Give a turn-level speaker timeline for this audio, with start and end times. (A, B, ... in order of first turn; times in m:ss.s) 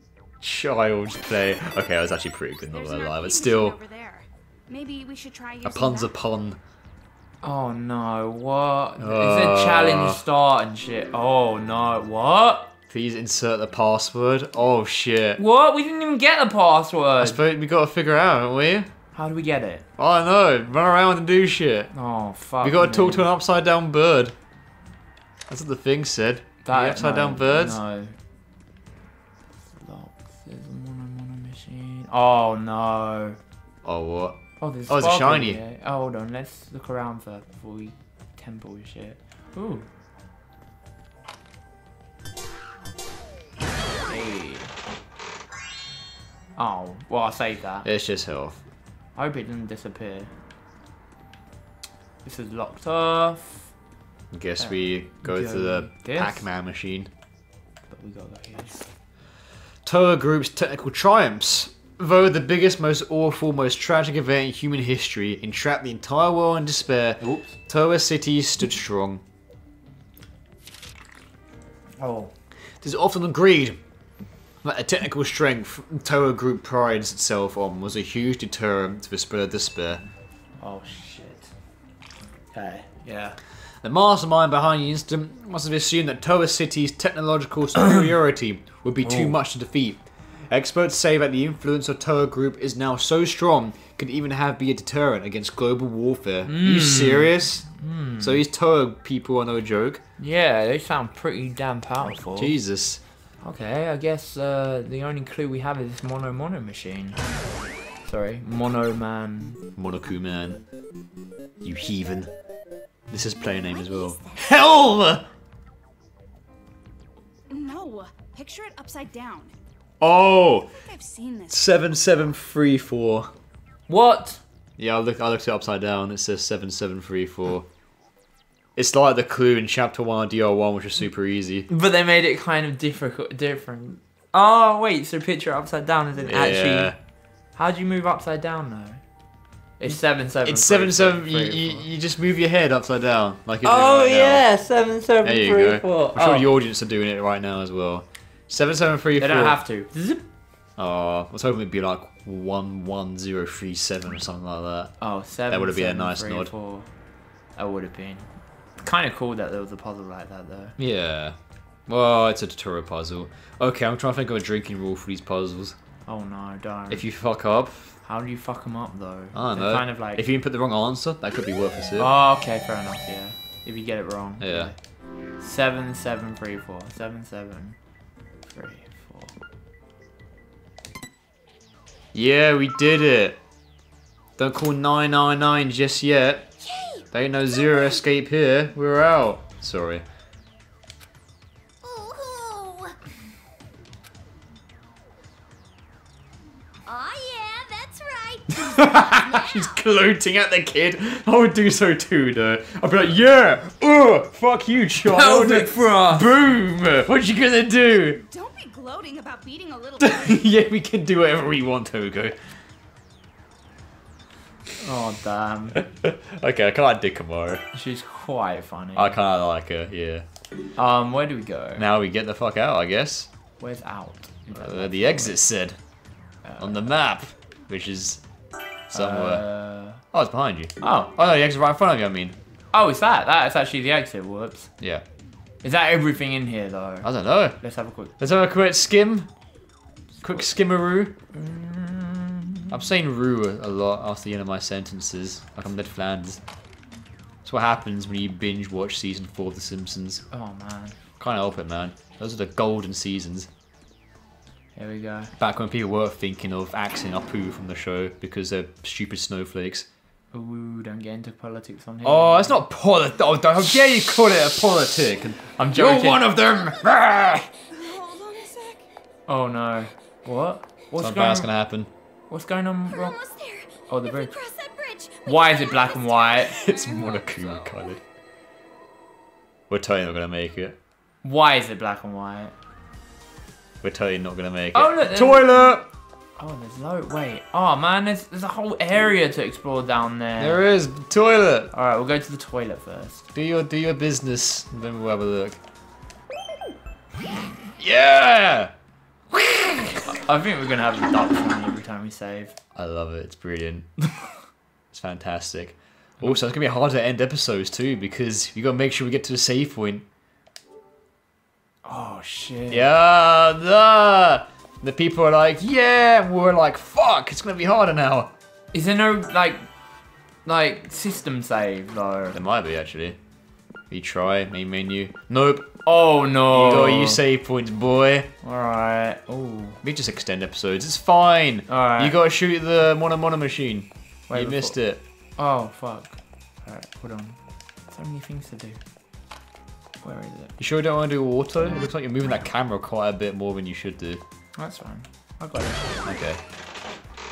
0:00.4-0:03.8 A
0:02.7-0:06.1 B
0:05.6-0:06.6 A
0:07.4-0:12.7 C
0:09.0-0:10.2 A
0:12.9-0:15.4 A
0:15.4-0:17.4 C
0:17.2-0:18.9 A
0:19.1-0:19.8 C
0:20.0-0:21.9 A
0:21.9-0:23.3 C
0:22.6-0:24.3 A
0:25.5-0:27.8 A
0:26.6-0:28.1 C
0:29.7-0:33.4 C
0:33.8-0:35.6 A
0:34.6-0:39.9 C
0:44.0-0:44.8 C
0:46.6-0:47.9 C
0:47.8-0:48.6 A
0:49.2-0:50.3 C
0:52.2-0:53.7 C
0:54.3-0:57.1 A
0:54.6-0:56.5 C
0:57.9-0:58.8 C
0:59.8-1:09.2 A
1:07.2-1:07.5 C
1:12.0-1:12.3 C
1:12.8-1:13.8 A
1:14.6-1:20.0 A
1:20.6-1:21.5 C
1:22.5-1:23.4 C
1:23.8-1:37.6 A
1:29.0-1:29.4 C
1:36.4-1:38.4 C
1:38.2-1:40.0 A
1:40.2-1:42.6 C
1:42.3-1:43.0 A
1:43.4-1:47.2 C
1:48.0-1:49.6 C
1:49.8-1:50.6 A
1:51.6-1:52.3 A
1:53.1-1:55.2 A
1:53.6-1:54.5 D
1:57.5-1:59.5 B
2:00.0-2:00.7 A
2:00.7-2:01.7 B
2:01.5-2:03.3 A
2:03.9-2:04.4 C
2:04.8-2:07.6 A
2:08.8-2:11.7 A
2:11.7-2:16.9 C
2:16.2-2:17.0 A
2:17.5-2:19.0 C
2:19.8-2:21.9 C
2:19.9-2:24.5 A
2:23.6-2:26.5 C
2:25.2-2:29.6 A
2:29.2-2:30.2 C
2:30.8-2:34.9 A
2:35.0-2:36.9 C
2:35.5-2:36.5 A
2:37.6-2:40.8 C
2:40.8-2:45.8 A
2:46.0-2:47.1 C
2:46.9-2:47.9 A
2:48.0-2:50.2 C
2:49.3-2:52.1 A
2:52.0-2:54.8 C
2:54.4-2:54.7 A
2:55.4-2:57.8 C
2:58.5-2:59.3 C
3:02.1-3:03.4 A
3:04.4-3:06.5 A
3:06.6-3:08.0 D
3:07.1-3:10.0 A
3:11.8-3:13.0 D
3:16.8-3:19.8 D
3:18.5-3:28.2 A
3:25.0-3:26.3 C
3:28.0-3:30.4 B
3:30.0-3:32.4 A
3:34.8-3:35.8 C
3:35.7-3:37.6 A
3:37.7-3:39.2 C
3:39.0-3:40.2 A
3:40.8-3:41.8 C
3:41.8-3:43.3 A
3:43.6-3:45.4 C
3:44.5-3:45.8 A
3:46.4-3:46.9 C
3:46.6-3:48.2 A
3:48.9-3:49.5 A
3:48.9-3:50.0 C
3:50.1-3:52.4 A
3:50.8-3:51.1 C
3:52.7-3:54.7 C
3:55.6-3:58.1 C
3:57.0-3:57.6 A
3:58.2-3:59.3 A
4:00.2-4:01.1 A
4:01.3-4:02.9 C
4:02.7-4:06.4 A
4:07.4-4:10.2 A
4:10.3-4:11.0 C
4:11.2-4:13.5 A
4:14.8-4:15.3 C
4:15.4-4:19.9 A
4:20.3-4:22.6 C
4:22.0-4:27.5 A
4:25.6-4:26.3 C
4:26.5-4:27.0 D
4:27.7-4:28.8 D
4:27.7-4:28.8 B
4:29.3-4:31.5 C
4:31.0-4:31.9 A
4:32.3-4:33.2 C
4:32.9-4:37.9 D
4:33.9-4:34.4 C
4:35.2-4:36.6 C
4:36.5-4:38.0 A
4:39.7-4:40.8 A
4:41.2-4:42.5 C
4:43.8-4:45.9 A
4:44.7-4:45.6 C
4:46.4-4:50.6 C
4:50.4-4:51.7 A
4:51.7-4:53.3 C
4:53.3-4:55.6 A
4:57.8-4:58.7 A
4:59.3-5:00.1 A
5:00.0-5:02.5 C
5:02.7-5:03.9 A
5:04.9-5:10.0 A
5:11.8-5:12.9 C
5:12.7-5:18.3 A
5:18.7-5:19.7 C
5:20.4-5:22.4 C
5:22.3-5:23.2 A
5:23.9-5:25.8 A
5:25.8-5:27.2 C
5:26.5-5:28.3 A
5:28.4-5:29.8 C
5:29.8-5:35.0 A
5:31.7-5:32.2 C
5:34.3-5:34.8 C
5:35.4-5:38.8 C
5:40.0-5:40.5 C
5:40.6-5:44.2 A
5:44.6-5:46.0 C
5:46.0-5:46.4 A